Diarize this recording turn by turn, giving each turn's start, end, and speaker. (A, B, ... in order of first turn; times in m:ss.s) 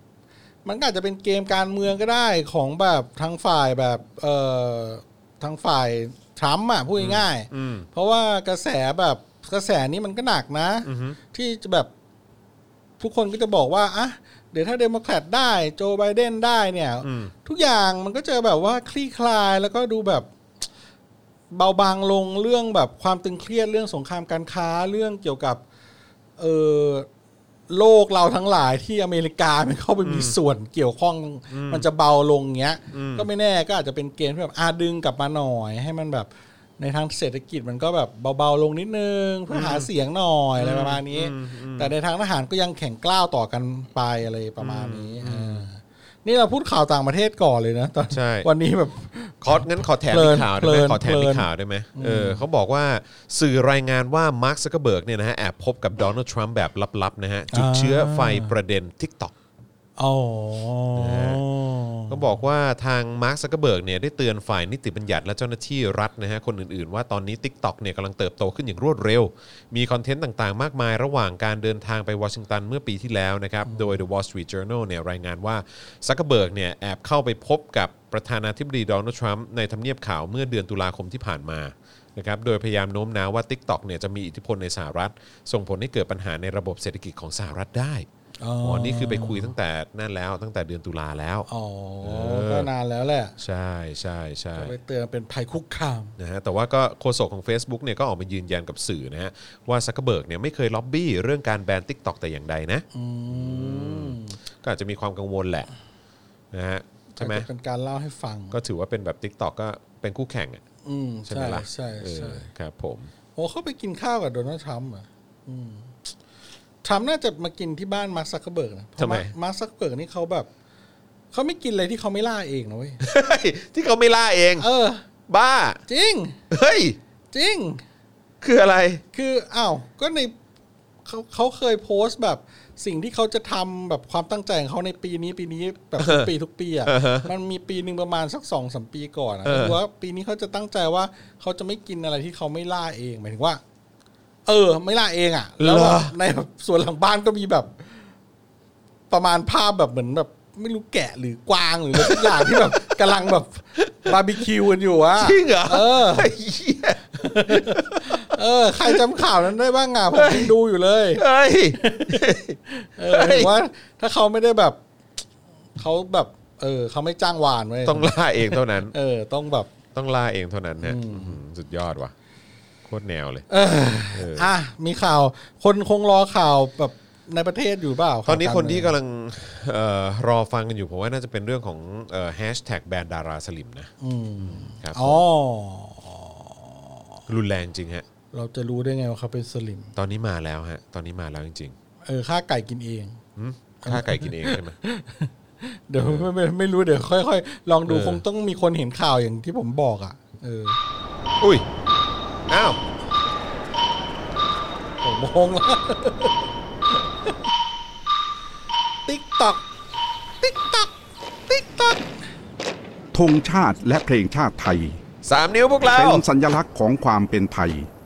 0:00.6-0:11.9 A
0:07.0-0:07.9 B
0:10.8-0:11.2 B
0:13.0-0:20.3 A
0:17.0-0:17.3 B
0:21.5-0:25.6 A
0:26.4-0:27.1 A
0:27.7-0:52.4 A
0:30.0-0:30.4 B
0:31.5-0:31.8 B
0:32.9-0:33.3 B
0:39.5-0:39.9 B
0:40.6-0:41.9 B
0:44.6-0:45.7 B
0:48.1-0:48.5 B
0:49.4-0:59.3 B
0:57.5-0:58.5 A
1:00.0-1:02.2 A
1:01.0-1:01.4 B
1:02.1-1:28.1 B
1:13.7-1:13.9 A
1:28.4-1:29.5 A
1:28.6-1:31.5 B
1:31.5-1:33.4 A
1:32.0-1:32.7 B
1:33.4-1:34.7 B
1:34.6-1:36.2 A
1:36.2-1:45.7 B
1:42.9-1:44.4 A
1:46.5-1:47.5 B
1:47.2-1:48.6 A
1:48.5-1:50.6 B
1:50.8-1:52.5 A
1:51.3-1:53.1 B
1:53.4-1:55.9 A
1:56.8-2:00.5 A
1:59.0-1:59.3 B
2:01.3-2:03.0 A
2:03.0-2:04.7 B
2:04.6-2:05.0 A
2:05.3-2:05.8 B
2:05.9-2:06.4 A
2:06.5-2:07.0 B
2:07.3-2:07.8 A
2:08.4-2:09.0 B
2:09.1-2:10.3 A
2:11.1-2:23.6 A
2:16.0-2:16.3 B
2:16.8-2:17.3 B
2:19.4-2:19.8 B
2:24.5-2:27.9 A
2:25.6-2:26.2 B
2:29.1-2:36.3 A
2:32.0-2:33.0 B
2:33.8-2:34.2 B
2:35.2-2:38.2 B
2:37.2-2:44.8 A
2:40.1-2:40.5 B
2:41.2-2:43.5 B
2:45.8-2:49.7 A
2:47.8-2:48.9 B
2:49.9-2:52.1 B
2:50.8-2:51.4 A
2:52.9-2:53.5 B
2:53.5-2:59.0 A
2:54.1-2:54.5 B
2:58.3-3:05.2 B
3:04.0-3:07.2 A
3:07.3-3:08.0 B
3:08.3-3:09.9 A
3:10.0-3:11.8 B
3:12.1-3:13.2 A
3:13.4-3:14.8 B
3:13.8-3:20.8 A
3:16.0-3:16.3 B
3:17.9-3:18.2 B
3:21.4-3:21.7 B
3:22.5-3:22.8 B
3:25.0-3:26.4 A
3:29.1-3:29.6 A
3:30.4-3:30.9 A
3:31.5-3:32.1 A
3:33.1-3:35.0 C
3:35.2-3:36.2 B
3:35.9-3:37.9 C